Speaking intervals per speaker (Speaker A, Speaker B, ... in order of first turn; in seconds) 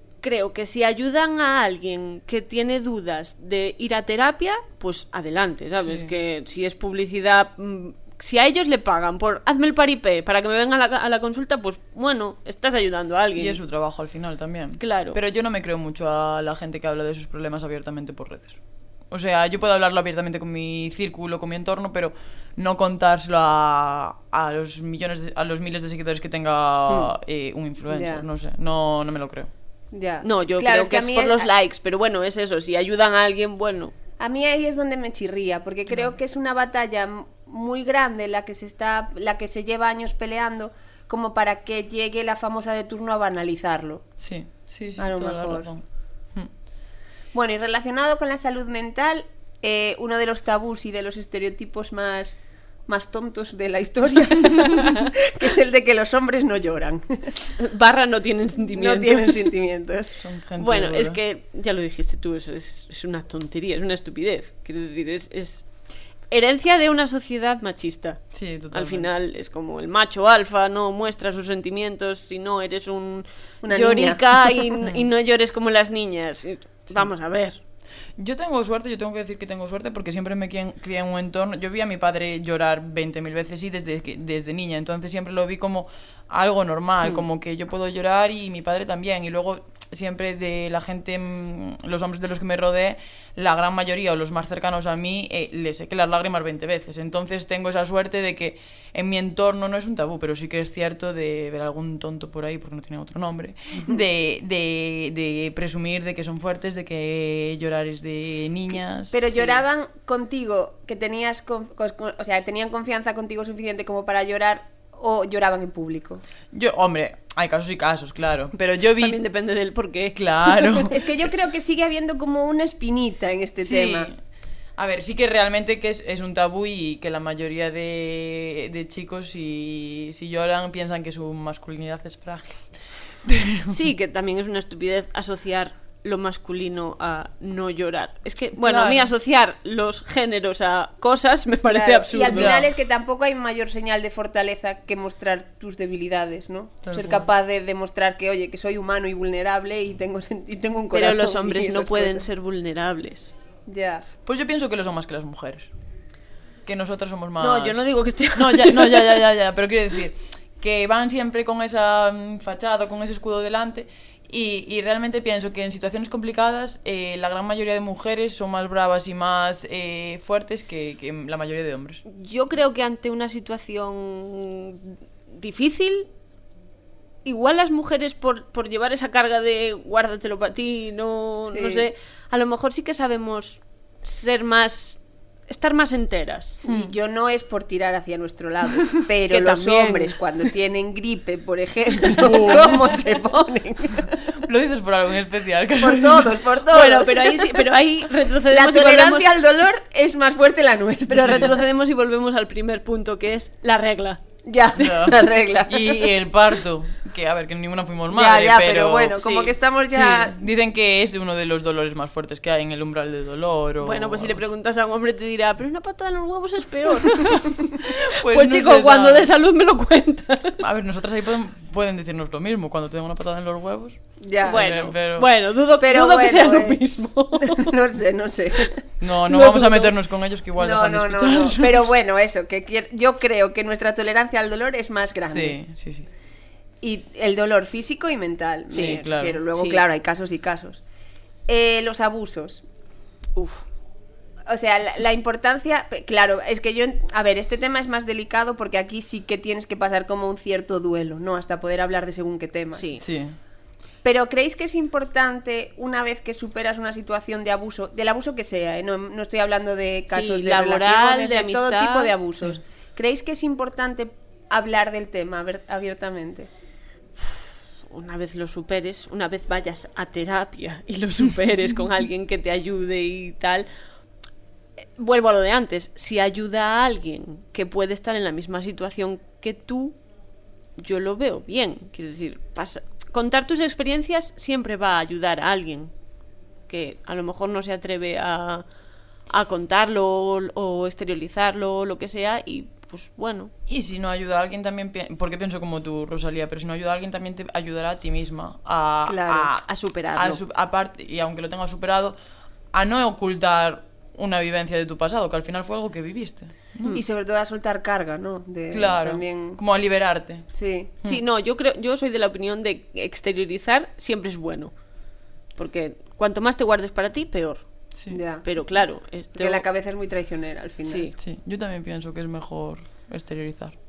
Speaker A: 0.2-13.6, 14.8-15.2, 30.2-33.9, 57.6-59.5, 60.6-65.7, 66.3-77.6, 119.0-120.9, 133.7-142.7, 150.9-153.3, 157.4-159.2, 172.1-176.1, 177.2-186.6, 189.3-190.2, 196.7-199.3, 201.1-204.2, 209.2-209.5, 213.8-220.7, 224.4-227.8, 229.2-229.9, 238.7-239.0, 239.5-239.8, 243.3-243.6, 252.7-253.0, 260.1-262.1, 267.2-273.6, 275.0-279.9, 280.8-285.9, 286.7-288.6, 289.3-293.5, 299.4-300.4, 311.0-314.7, 315.5-317.6, 318.4-319.6, 320.9-321.1
Speaker B: 5.8-6.1, 13.4-18.6, 19.1-29.5, 44.2-46.5, 60.2-61.2, 68.3-69.1, 78.2-109.3, 116.5-119.2, 120.1-120.9, 123.6-124.2, 124.8-133.8, 138.6-139.1, 142.3-142.7, 146.8-147.2, 154.2-155.7, 156.6-172.0, 186.7-186.9, 192.2-192.8, 194.2-196.3, 204.8-209.2, 209.9-214.4, 217.8-219.3, 220.6-225.3, 229.0-231.9, 235.3-236.1, 238.7-239.4, 253.0-253.4, 293.7-302.1, 302.7-307.0, 308.7-310.5, 321.2-323.7
Speaker C: 27.9-28.2, 29.9-31.5, 34.2-44.0, 45.0-45.7, 47.3-57.4, 58.7-60.1, 73.6-74.7, 109.1-116.2, 120.9-124.1, 141.7-152.2, 153.7-154.0, 181.5-181.9, 186.6-194.2, 195.8-197.6, 198.5-201.5, 204.4-206.1, 208.1-210.4, 224.2-224.6, 225.8-226.8, 227.5-228.8, 230.6-235.6, 236.8-240.8, 241.5-242.6, 244.5-253.0, 254.0-266.5, 306.9-309.6, 310.5-310.9, 318.1-318.4, 319.3-321.1